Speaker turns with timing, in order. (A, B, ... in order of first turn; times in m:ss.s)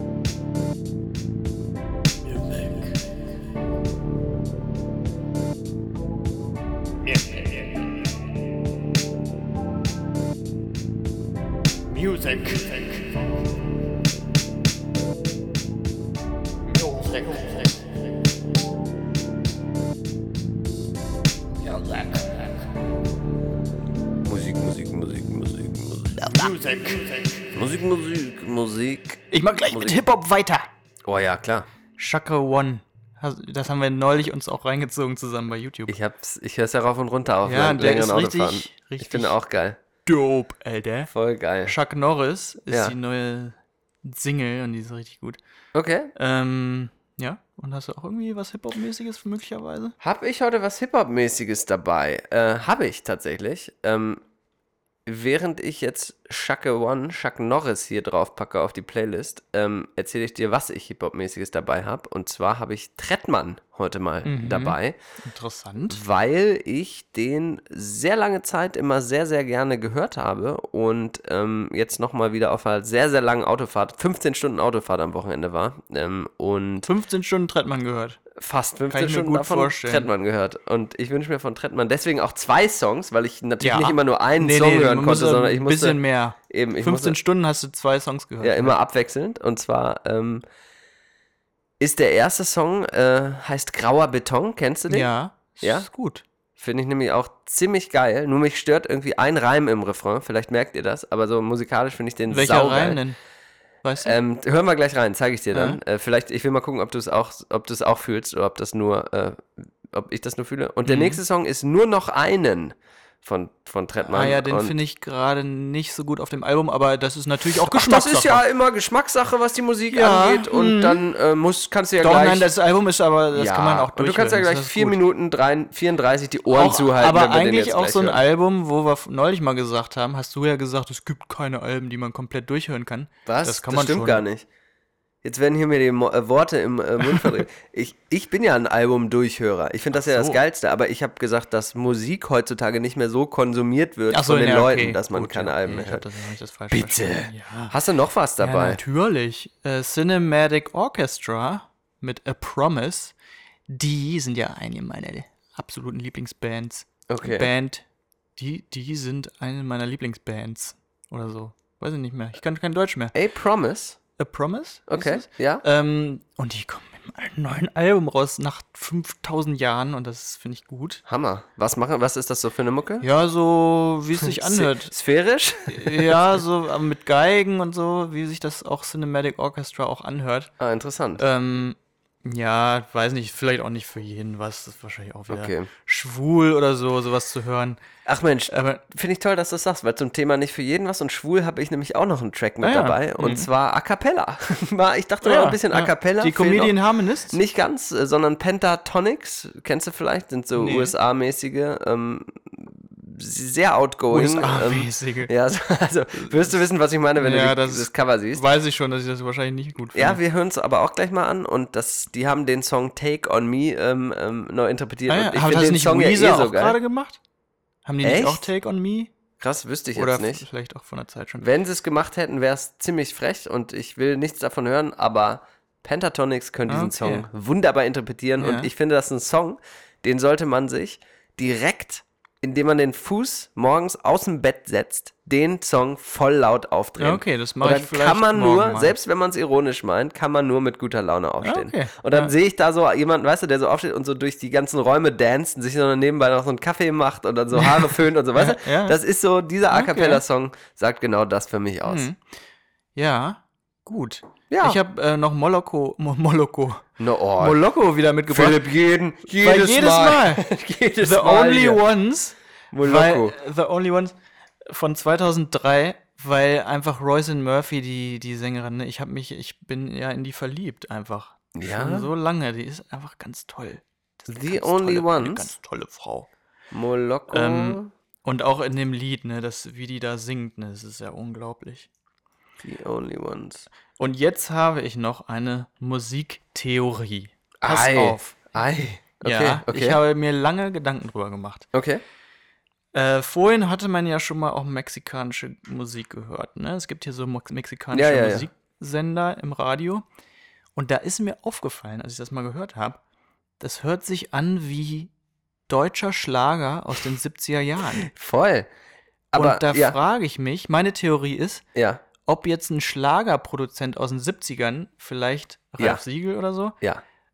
0:02.3-0:02.9 A
0:24.2-0:26.7 B
0:26.2-0:26.9 A
0:27.5-0:30.0 B
0:29.3-0:30.7 A
0:31.0-0:31.7 B
0:32.0-0:36.0 A
0:35.9-0:39.8 B
0:37.4-0:39.3 A
0:40.0-0:41.1 A
0:41.1-0:41.7 B
0:41.6-0:45.4 A
0:45.7-0:46.1 B
0:46.1-0:50.0 A
0:50.0-0:54.2 B
0:55.0-1:05.0 B
1:04.2-1:06.0 A
1:05.9-1:16.9 B
1:16.8-1:18.2 A
1:18.3-1:27.2 B
1:18.9-1:20.1 A
1:23.6-1:28.8 A
1:28.4-1:30.4 B
1:31.8-1:35.1 B
1:34.9-1:36.2 A
1:35.6-1:35.9 B
1:36.6-1:43.0 B
1:42.3-1:43.2 A
1:43.8-1:44.1 A
1:44.0-1:54.8 B
1:45.5-1:45.8 A
1:50.8-1:51.2 A
1:54.1-1:58.4 A
1:57.6-2:02.5 B
1:59.9-2:01.0 A
2:02.0-2:05.0 A
2:03.3-2:08.2 B
2:06.5-2:14.2 A
2:13.2-2:14.5 B
2:15.2-2:26.0 B
2:19.9-2:20.4 A
2:24.1-2:27.7 A
2:26.7-2:28.8 B
2:28.4-2:33.1 A
2:33.7-2:37.8 A
2:37.1-2:37.5 B
2:38.4-2:43.1 A
2:43.1-2:44.0 B
2:44.2-2:51.0 A
2:44.9-2:45.6 B
2:51.1-2:53.1 B
2:53.0-2:54.9 A
2:54.2-2:56.4 B
2:55.7-3:00.5 A
3:00.6-3:01.2 B
3:01.2-3:07.8 A
3:05.3-3:05.7 B
3:08.0-3:16.8 B
3:08.5-3:08.8 A
3:12.6-3:13.5 A
3:15.2-3:17.4 A
3:17.3-3:28.4 B
3:20.6-3:20.9 A
3:24.1-3:25.3 A
3:26.2-3:26.5 A
3:27.2-3:30.2 A
3:29.9-3:36.8 B
3:35.1-3:37.2 A
3:37.8-3:39.1 A
3:38.0-3:38.5 B
3:39.4-3:40.4 B
3:40.0-3:41.4 A
3:41.4-4:12.1 B
3:46.7-3:47.3 A
3:48.4-3:48.7 A
3:57.0-3:58.9 A
4:01.4-4:02.3 A
4:07.5-4:09.0 A
4:09.7-4:10.2 A
4:11.8-4:12.2 A
4:13.0-4:16.8 A
4:14.5-4:14.8 B
4:17.0-4:17.6 B
4:17.4-4:18.6 A
4:18.3-4:21.8 B
4:19.3-4:20.4 A
4:21.0-4:24.1 A
4:22.7-4:23.4 B
4:24.7-4:36.3 A
4:31.5-4:32.1 B
4:34.3-4:35.5 B
4:36.7-4:37.9 B
4:37.3-4:41.9 A
4:42.6-4:43.6 B
4:44.0-4:48.5 A
4:47.6-4:50.0 B
4:49.2-4:51.6 A
4:51.7-4:52.0 B
4:52.9-5:00.0 A
4:57.9-4:58.5 B
5:00.8-5:03.0 A
5:03.6-5:05.1 A
5:05.7-5:08.1 A
5:08.0-5:08.7 B
5:09.3-5:10.0 B
5:09.3-5:11.6 A
5:11.7-5:12.0 B
5:12.2-5:16.8 A